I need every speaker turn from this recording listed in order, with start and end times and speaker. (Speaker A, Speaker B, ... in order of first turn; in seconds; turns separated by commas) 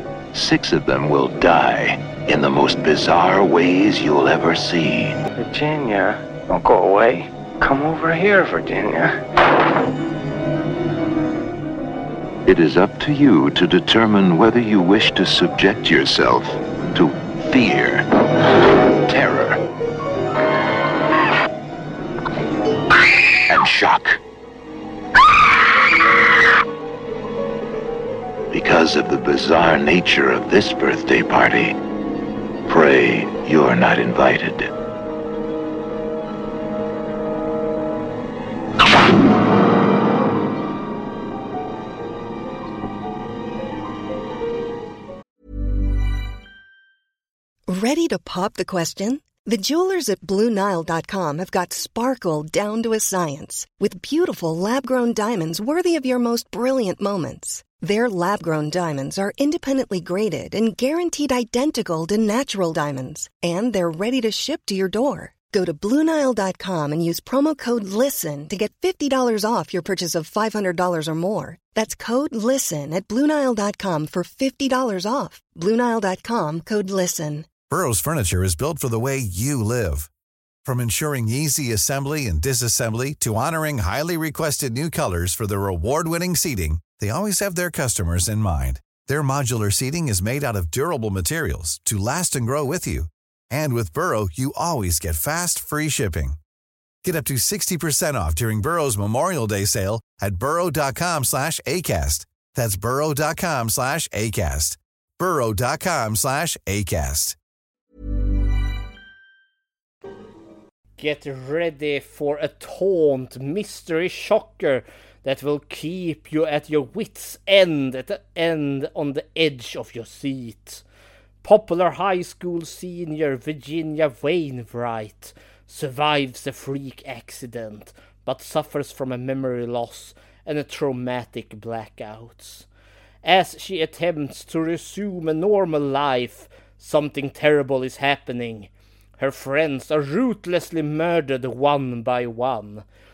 Speaker A: 0.3-5.2, Speaker B: 5.4-9.2, Speaker A: 12.5-18.1, Speaker A: 19.1-19.6, Speaker A: 23.5-24.2, Speaker A: 28.5-31.8, Speaker A: 32.7-34.7, Speaker C: 47.7-77.5, Speaker D: 77.7-80.1, Speaker D: 80.6-96.4, Speaker D: 97.0-107.4, Speaker E: 111.0-120.8, Speaker E: 121.4-132.7, Speaker E: 133.2-142.8